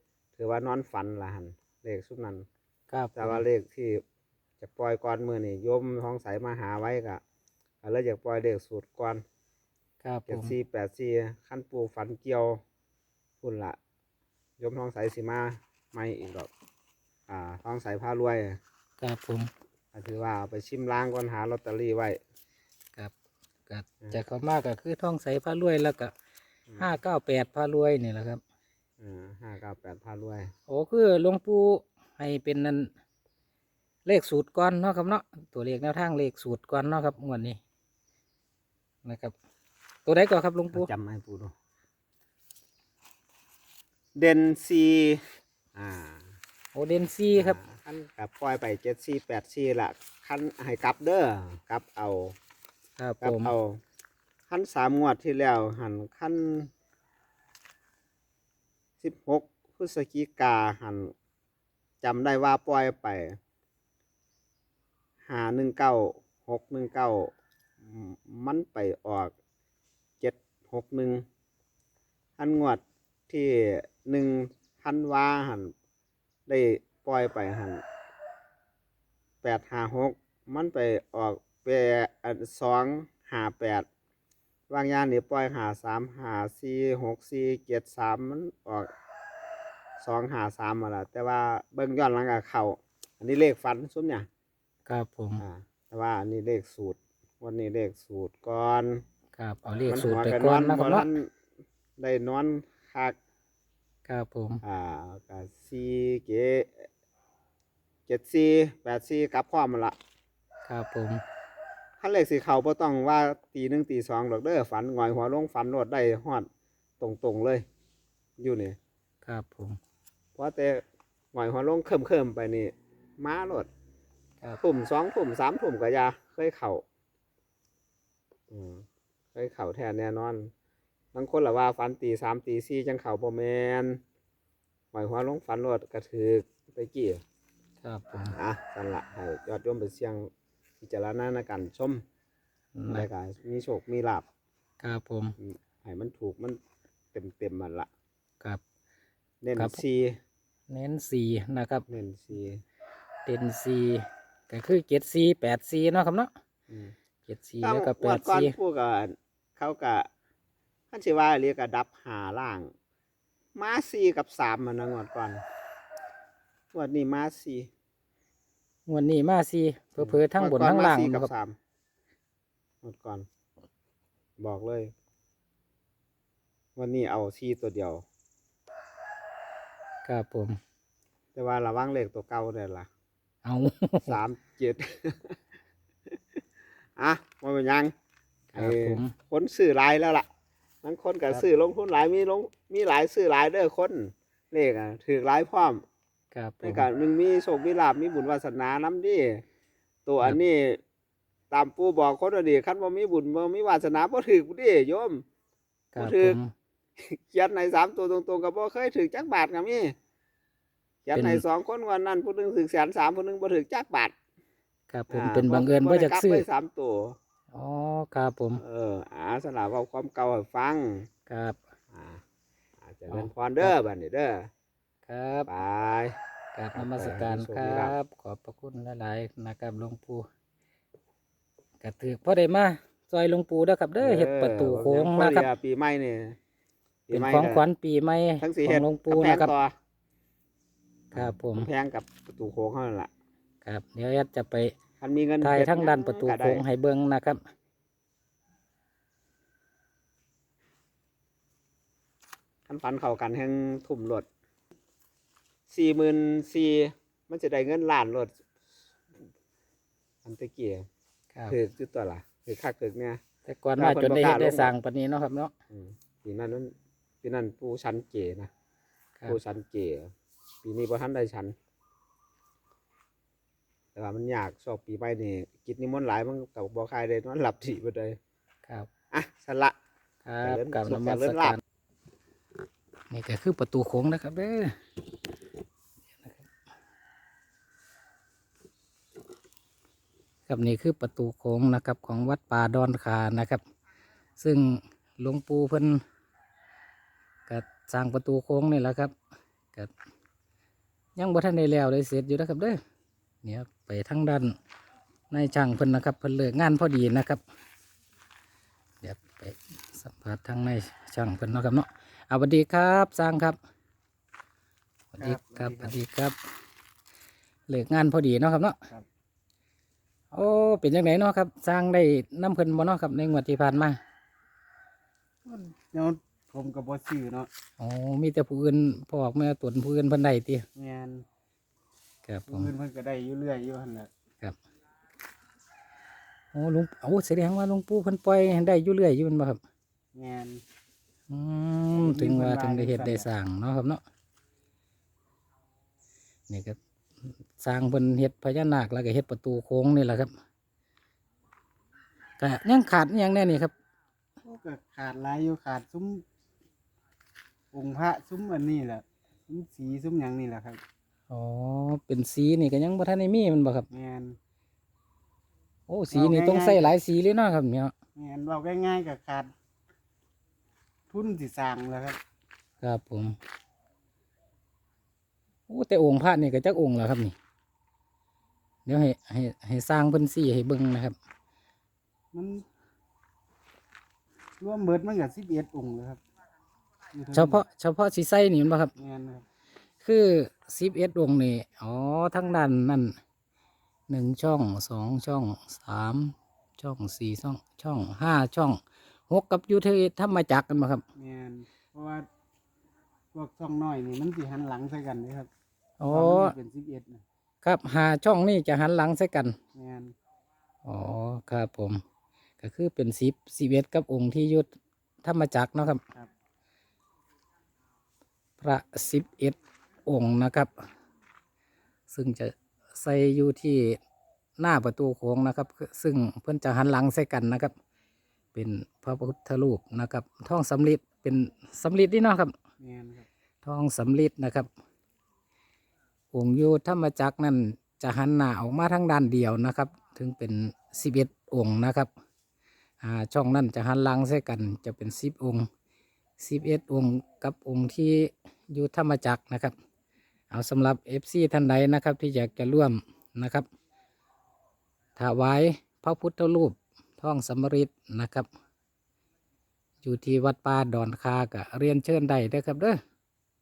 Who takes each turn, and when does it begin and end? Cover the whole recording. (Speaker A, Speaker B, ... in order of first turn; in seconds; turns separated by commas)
Speaker A: 0.3-2.4, Speaker B: 2.9-3.4, Speaker A: 3.1-4.0, Speaker A: 4.6-7.2, Speaker A: 7.8-9.2, Speaker B: 10.0-10.5, Speaker A: 10.3-12.6, Speaker A: 13.4-13.8, Speaker A: 14.6-16.5, Speaker A: 17.3-18.6, Speaker B: 19.0-19.5, Speaker A: 19.9-22.2, Speaker B: 23.7-26.1, Speaker B: 26.8-28.4, Speaker A: 29.0-30.5, Speaker B: 30.7-32.9, Speaker B: 34.0-37.6, Speaker B: 39.0-39.3, Speaker B: 40.0-40.9, Speaker A: 40.7-41.5, Speaker A: 44.2-45.2, Speaker A: 45.7-46.3, Speaker B: 46.7-47.6, Speaker A: 47.4-52.4, Speaker B: 53.0-53.5, Speaker A: 53.2-53.8, Speaker A: 54.5-56.7, Speaker A: 59.0-61.1, Speaker A: 62.0-63.4, Speaker A: 65.3-67.3, Speaker A: 67.8-69.3, Speaker A: 70.2-71.2, Speaker A: 72.4-75.7, Speaker A: 76.5-77.8, Speaker A: 79.4-83.8, Speaker A: 84.7-88.9, Speaker A: 90.0-94.3, Speaker B: 94.9-95.4, Speaker A: 95.4-99.0, Speaker B: 99.3-101.1, Speaker A: 99.9-101.3, Speaker A: 102.0-103.2, Speaker B: 104.0-104.6, Speaker A: 104.6-106.9, Speaker A: 108.1-110.0, Speaker B: 110.7-111.2, Speaker A: 112.0-116.5, Speaker A: 117.0-117.7, Speaker A: 118.4-118.8, Speaker B: 119.2-119.8, Speaker A: 120.3-120.8, Speaker A: 121.3-123.7, Speaker A: 124.6-126.8, Speaker A: 128.5-130.5, Speaker A: 131.1-134.0, Speaker A: 134.9-137.2, Speaker B: 137.8-138.3, Speaker A: 138.3-140.3, Speaker A: 140.8-142.0, Speaker B: 142.8-143.1, Speaker A: 142.9-144.2, Speaker B: 144.8-145.3, Speaker A: 145.4-146.6, Speaker A: 147.1-147.9, Speaker A: 149.4-150.2, Speaker B: 150.7-151.8, Speaker A: 151.9-152.6, Speaker B: 153.2-156.3, Speaker B: 157.3-158.5, Speaker A: 157.6-160.1, Speaker A: 160.9-162.7, Speaker A: 163.5-165.4, Speaker A: 166.7-167.7, Speaker B: 168.9-171.3, Speaker A: 170.0-171.6, Speaker A: 172.8-173.2, Speaker A: 174.4-174.9, Speaker A: 176.8-178.0, Speaker B: 180.0-180.6, Speaker A: 181.3-182.9, Speaker B: 183.4-184.1, Speaker A: 184.0-185.3, Speaker A: 187.0-187.9, Speaker B: 188.5-189.1, Speaker A: 188.6-190.3, Speaker A: 190.8-195.8, Speaker B: 196.3-196.8, Speaker A: 196.6-199.4, Speaker A: 200.1-200.8, Speaker A: 201.5-205.2, Speaker B: 205.9-206.5, Speaker A: 206.0-206.4, Speaker A: 207.0-209.9, Speaker A: 211.0-214.1, Speaker B: 211.1-211.4, Speaker B: 214.9-216.4, Speaker A: 215.1-217.2, Speaker B: 217.5-218.6, Speaker A: 218.6-221.1, Speaker B: 221.3-221.6, Speaker A: 221.9-222.2, Speaker A: 222.8-224.5, Speaker B: 223.1-223.7, Speaker B: 225.1-225.5, Speaker A: 225.5-226.2, Speaker B: 226.5-230.3, Speaker A: 226.7-227.9, Speaker B: 231.8-235.5, Speaker A: 234.0-236.3, Speaker A: 237.1-237.6, Speaker B: 237.1-239.5, Speaker A: 238.4-239.7, Speaker B: 241.1-241.7, Speaker A: 241.1-243.1, Speaker B: 243.6-244.7, Speaker A: 245.0-246.6, Speaker B: 245.4-247.4, Speaker A: 252.7-254.2, Speaker A: 255.7-258.3, Speaker A: 260.2-260.8, Speaker A: 261.5-263.2, Speaker B: 263.4-265.5, Speaker A: 263.8-264.7, Speaker A: 265.7-268.5, Speaker A: 269.2-270.1, Speaker A: 270.6-271.5, Speaker A: 273.9-278.2, Speaker A: 279.1-279.7, Speaker B: 280.2-281.6, Speaker A: 280.4-281.6, Speaker B: 283.1-284.7, Speaker B: 290.5-293.6, Speaker B: 294.4-296.0, Speaker B: 297.5-299.1, Speaker B: 301.1-302.8, Speaker B: 303.4-304.6, Speaker B: 305.3-307.4, Speaker B: 309.0-313.6, Speaker B: 315.1-316.4, Speaker A: 315.2-315.8, Speaker B: 317.7-318.8, Speaker B: 320.3-324.0, Speaker C: 325.4-327.5, Speaker B: 327.8-330.6, Speaker C: 330.8-331.2, Speaker B: 332.2-332.7, Speaker C: 332.6-334.1, Speaker B: 336.5-339.6, Speaker C: 340.1-340.6, Speaker B: 341.3-344.0, Speaker C: 342.1-343.2, Speaker B: 346.5-346.8, Speaker B: 347.6-350.3, Speaker B: 352.4-353.7, Speaker C: 354.4-356.2, Speaker C: 357.7-360.8, Speaker B: 361.3-363.9, Speaker C: 363.9-364.3, Speaker B: 365.9-367.9, Speaker C: 366.2-366.7, Speaker C: 368.2-369.5, Speaker C: 371.1-372.2, Speaker B: 372.8-373.3, Speaker B: 375.7-377.3, Speaker B: 378.9-381.1, Speaker C: 382.3-382.6, Speaker C: 384.6-386.2, Speaker C: 387.1-387.5, Speaker B: 387.3-388.9, Speaker C: 389.0-389.4, Speaker B: 390.0-393.1, Speaker B: 394.1-401.0, Speaker C: 401.2-402.2, Speaker C: 403.3-405.5, Speaker B: 406.0-406.6, Speaker C: 406.1-407.2, Speaker B: 407.6-409.6, Speaker C: 409.7-410.1, Speaker B: 410.8-412.0, Speaker B: 412.6-414.7, Speaker B: 415.2-416.0, Speaker B: 418.6-420.8, Speaker B: 422.1-424.0, Speaker B: 424.6-427.7, Speaker B: 428.5-432.5, Speaker C: 432.8-433.3, Speaker B: 433.6-434.7, Speaker B: 436.3-442.1, Speaker B: 443.0-445.7, Speaker B: 446.4-449.7, Speaker B: 450.5-453.7, Speaker B: 455.2-458.5, Speaker B: 460.0-463.0